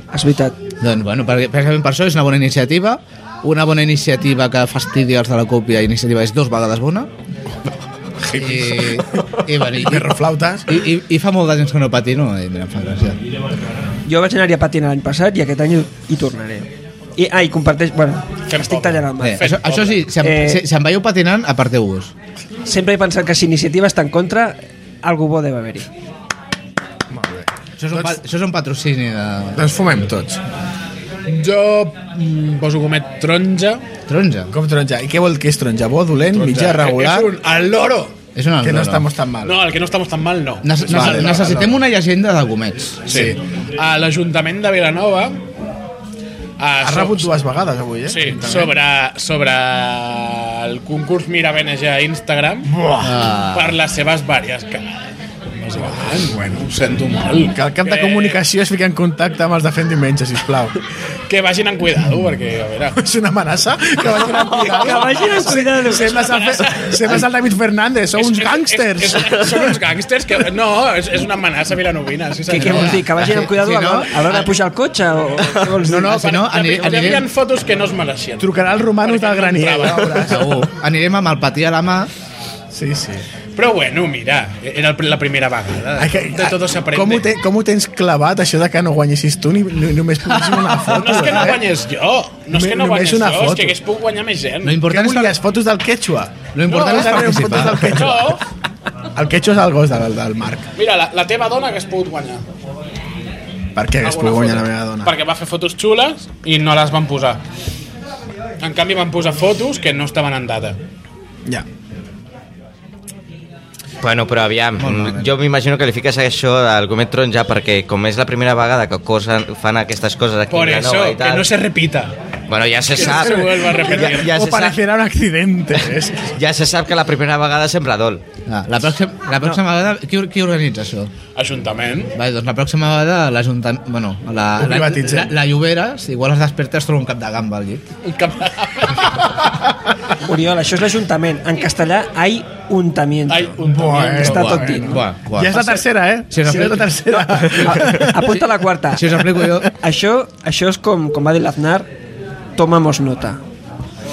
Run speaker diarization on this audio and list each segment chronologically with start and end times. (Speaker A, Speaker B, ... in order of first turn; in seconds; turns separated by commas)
Speaker A: 0.1-0.6, Speaker B: 0.8-7.1, Speaker C: 8.2-10.7, Speaker B: 8.3-13.2, Speaker A: 14.1-19.5, Speaker D: 18.5-20.1, Speaker B: 19.2-22.1, Speaker A: 20.2-20.6, Speaker A: 22.6-25.9, Speaker C: 27.1-28.2, Speaker B: 27.8-29.6, Speaker C: 29.6-30.4, Speaker D: 31.3-33.9, Speaker B: 34.1-34.5, Speaker C: 34.5-37.3, Speaker D: 36.3-38.2, Speaker B: 38.4-39.1, Speaker C: 38.6-39.6, Speaker D: 39.4-41.6, Speaker B: 40.6-43.3, Speaker C: 40.9-41.8, Speaker D: 43.1-45.4, Speaker C: 43.1-43.4, Speaker D: 46.6-47.3, Speaker C: 46.8-48.7, Speaker D: 48.1-52.7, Speaker C: 52.7-53.2, Speaker B: 53.0-53.8, Speaker D: 53.5-58.4, Speaker C: 55.8-56.6, Speaker C: 57.5-60.8, Speaker D: 61.3-63.0, Speaker C: 62.0-62.3, Speaker C: 63.0-69.8, Speaker A: 64.5-66.2, Speaker D: 64.5-67.2, Speaker D: 68.1-73.1, Speaker A: 72.5-76.2, Speaker B: 72.5-74.5, Speaker B: 75.8-77.3, Speaker D: 75.9-80.4, Speaker C: 78.4-80.7, Speaker B: 80.2-82.1, Speaker C: 82.7-83.2, Speaker D: 83.6-87.3, Speaker C: 86.0-91.6, Speaker D: 90.9-94.8, Speaker C: 92.5-93.8, Speaker B: 94.6-95.4, Speaker C: 94.8-98.4, Speaker B: 96.5-98.4, Speaker D: 96.7-98.4, Speaker C: 99.2-100.7, Speaker D: 100.8-102.4, Speaker C: 103.8-105.1, Speaker D: 104.0-107.4, Speaker D: 108.6-110.8, Speaker E: 114.0-121.5, Speaker B: 114.8-115.3, Speaker D: 120.5-122.2, Speaker E: 122.5-124.8, Speaker D: 122.9-124.4, Speaker C: 123.0-126.4, Speaker E: 126.3-128.2, Speaker B: 128.5-131.1, Speaker D: 131.4-132.1, Speaker B: 132.1-137.8, Speaker C: 134.6-135.3, Speaker D: 138.0-139.1, Speaker A: 140.2-143.5, Speaker D: 143.3-144.9, Speaker C: 143.7-148.3, Speaker A: 144.2-145.0, Speaker B: 144.2-148.4, Speaker A: 147.6-151.9, Speaker B: 148.9-149.7, Speaker A: 152.6-153.4